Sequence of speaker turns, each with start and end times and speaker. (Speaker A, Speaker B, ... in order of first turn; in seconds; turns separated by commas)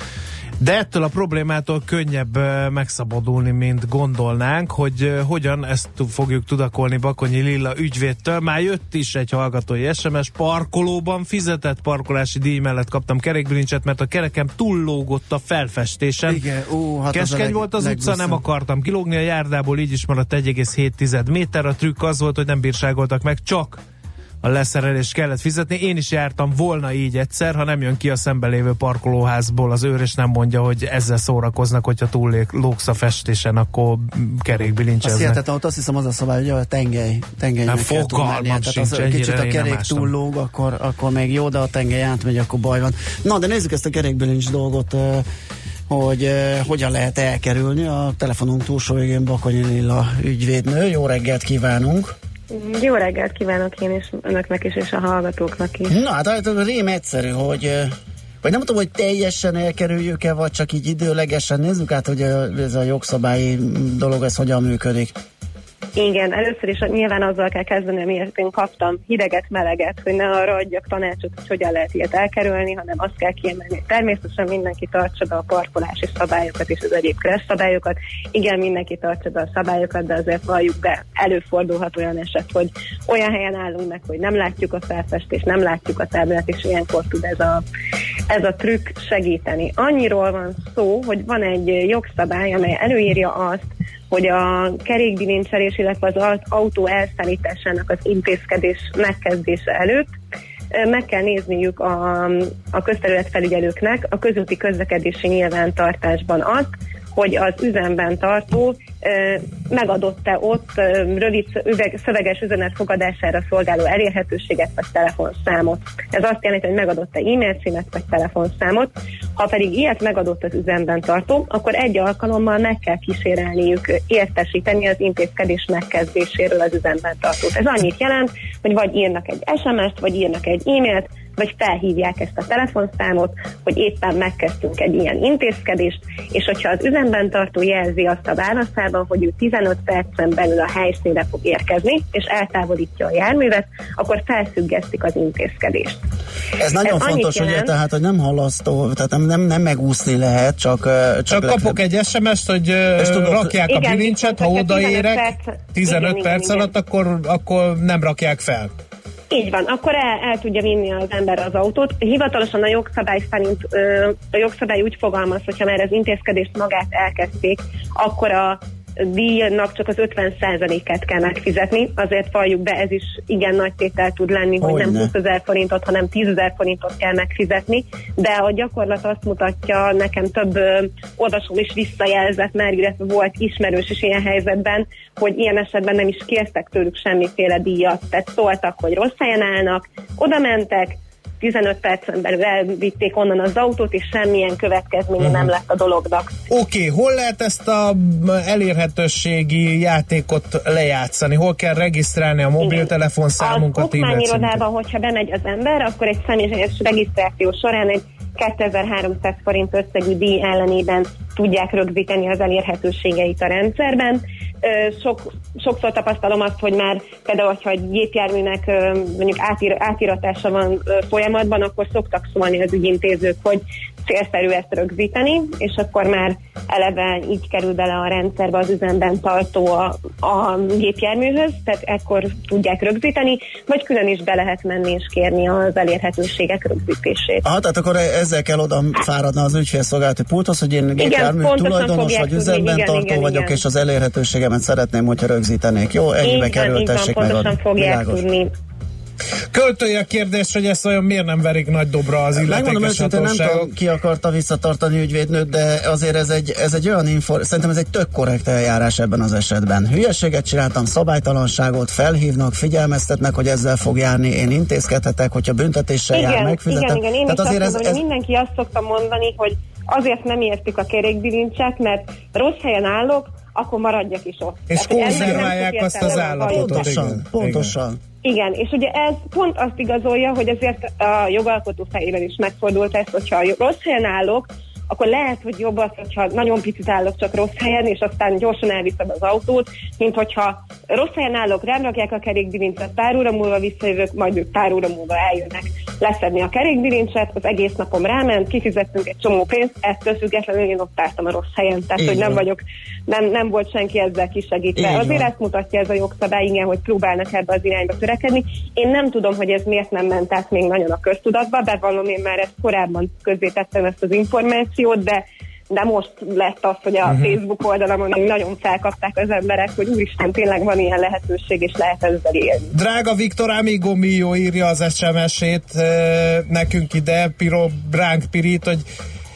Speaker A: 0.6-16.4, Speaker B: 16.3-18.4, Speaker A: 17.1-23.8, Speaker A: 24.4-35.4, Speaker B: 35.0-45.3, Speaker A: 37.7-40.1, Speaker B: 45.9-52.1, Speaker C: 52.5-55.9, Speaker B: 55.9-65.2, Speaker C: 66.0-87.6, Speaker C: 88.3-100.1, Speaker C: 100.7-146.0, Speaker B: 146.6-151.8, Speaker C: 146.8-147.7, Speaker A: 151.3-158.7, Speaker B: 152.9-153.6, Speaker C: 153.7-156.7, Speaker C: 159.3-196.3, Speaker B: 174.6-175.1, Speaker A: 195.2-195.5, Speaker A: 196.5-204.6, Speaker C: 202.6-237.4, Speaker B: 237.4-248.2, Speaker C: 241.0-243.6, Speaker C: 246.2-248.5, Speaker A: 249.5-253.7, Speaker B: 252.3-268.0, Speaker C: 266.1-276.9, Speaker A: 274.7-277.8, Speaker B: 275.1-275.5, Speaker B: 276.4-278.0, Speaker C: 278.2-322.7, Speaker B: 302.0-302.4, Speaker B: 304.8-305.3, Speaker A: 317.1-317.4, Speaker A: 322.7-328.8